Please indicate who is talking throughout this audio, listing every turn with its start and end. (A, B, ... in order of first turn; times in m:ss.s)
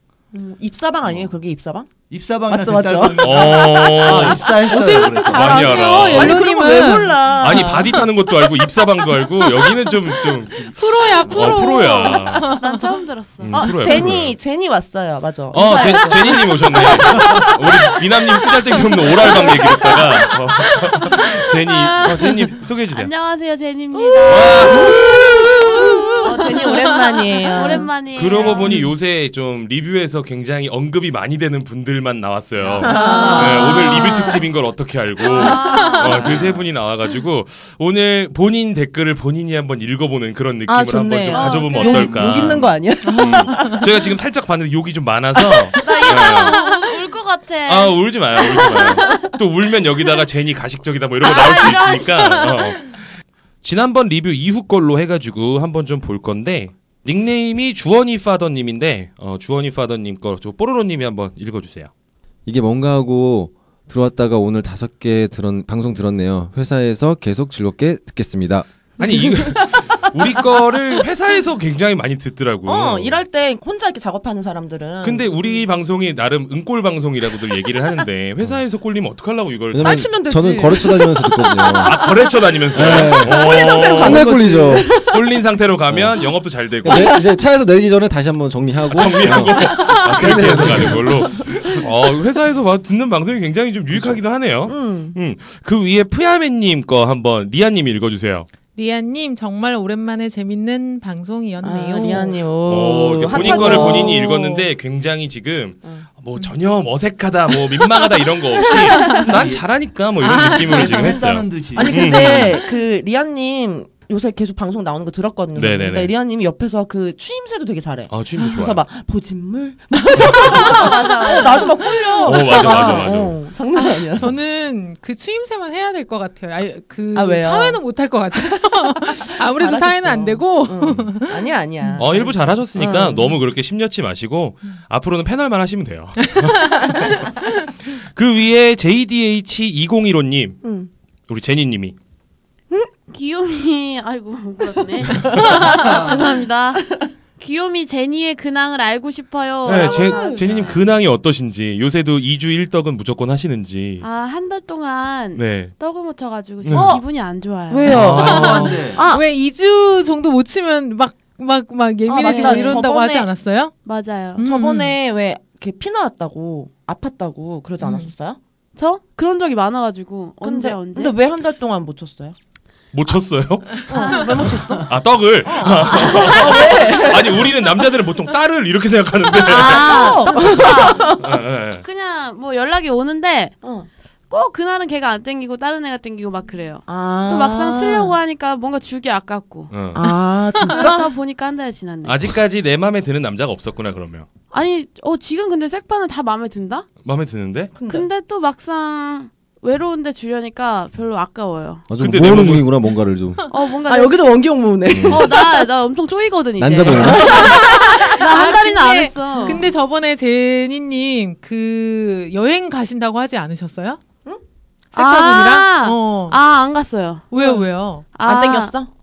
0:00.3-0:01.9 A
0:01.0-0:01.4 B
0:02.1-0:05.9 B
0:02.5-0:05.1 A
0:03.2-0:04.5 C
0:04.5-0:08.5 D
0:04.7-0:06.4 E
0:05.3-0:06.4 C
0:05.8-0:07.9 A
0:07.4-0:10.7 C
0:09.2-0:12.9 D
0:10.6-0:11.7 B
0:11.2-0:12.5 C
0:12.6-0:13.6 E
0:13.4-0:14.4 C
0:13.5-0:20.0 A
0:15.5-0:23.1 C
0:15.5-0:16.4 E
0:17.1-0:17.5 B
0:19.2-0:22.6 D
0:22.9-0:26.0 E
0:23.9-0:27.9 A
0:24.2-0:24.9 C
0:24.8-0:27.8 D
0:27.5-0:28.8 E
0:28.1-0:46.6 C
0:28.5-0:28.8 A
0:28.6-0:28.9 D
0:32.6-0:33.3 B
0:32.8-0:34.4 A
0:32.9-0:34.2 D
0:33.0-0:34.0 E
0:35.2-0:36.4 E
0:35.3-0:36.4 A
0:36.2-0:36.6 B
0:40.7-0:43.9 A
0:41.3-0:42.0 E
0:41.8-0:42.8 B
0:43.0-0:43.8 D
0:45.6-0:45.9 A
0:45.8-0:49.2 E
0:46.0-0:46.6 D
0:47.6-0:53.1 C
0:51.2-0:52.6 E
0:53.6-1:01.9 C
1:02.4-1:08.7 F
1:09.0-1:13.2 C
1:09.0-1:09.6 A
1:12.6-1:15.6 A
1:15.0-1:20.1 C
1:19.7-1:22.0 F
1:19.8-1:22.2 A
1:21.8-1:24.4 C
1:22.7-1:25.0 F
1:22.9-1:25.2 A
1:25.0-1:27.2 C
1:25.9-1:26.2 F
1:26.7-1:31.8 F
1:28.9-1:38.5 C
1:33.9-1:34.2 F
1:34.7-1:35.2 A
1:38.7-1:42.5 D
1:41.6-1:44.6 A
1:42.6-1:52.6 C
1:43.4-1:44.0 D
1:49.1-1:49.6 B
1:50.2-1:52.5 B
1:50.8-1:51.2 A
1:51.7-2:04.3 A
1:55.5-1:56.1 C
1:58.1-1:58.8 C
2:00.3-2:01.7 E
2:02.2-2:03.4 C
2:03.8-2:12.0 D
2:07.1-2:07.8 A
2:09.2-2:13.4 A
2:12.0-2:20.6 C
2:16.3-2:17.0 D
2:20.6-2:20.9 A
2:21.3-2:22.0 C
2:23.1-2:30.8 E
2:25.2-2:26.1 A
2:29.6-2:34.0 C
2:29.7-2:30.7 A
2:34.0-2:38.0 E
2:35.3-2:35.7 C
2:36.6-2:37.0 C
2:36.7-2:37.0 A
2:37.7-2:39.2 A
2:37.8-2:38.8 C
2:37.9-2:39.1 B
2:38.3-2:43.7 D
2:42.1-2:43.3 A
2:42.2-2:42.9 E
2:43.8-2:44.4 E
2:44.4-2:45.0 D
2:44.4-2:48.4 A
2:47.8-2:48.1 D
2:48.8-2:51.1 E
2:50.4-2:52.4 A
2:52.9-2:54.3 C
2:53.9-2:54.9 A
2:53.9-2:54.6 E
2:54.8-3:01.8 C
2:55.4-2:57.6 A
2:59.3-3:01.2 E
2:59.6-3:01.4 A
3:01.8-3:03.6 E
3:03.6-3:03.9 A
3:04.3-3:09.7 E
3:06.9-3:08.2 A
3:09.7-3:10.0 C
3:09.9-3:11.1 A
3:10.1-3:10.9 D
3:10.7-3:12.3 E
3:12.0-3:14.3 C
3:14.5-3:16.9 E
3:17.0-3:17.7 C
3:17.8-3:18.1 A
3:17.9-3:21.9 E
3:21.9-3:23.4 F
3:22.0-3:22.7 C
3:23.5-3:24.2 E
3:23.8-3:25.4 A
3:24.9-3:25.2 C
3:25.1-3:29.7 E
3:26.6-3:27.4 F
3:26.8-3:28.1 A
3:27.3-3:34.0 D
3:29.4-3:29.6 A
3:34.9-3:36.4 D
3:34.9-3:38.8 E
3:37.3-3:38.0 D
3:38.2-3:38.9 A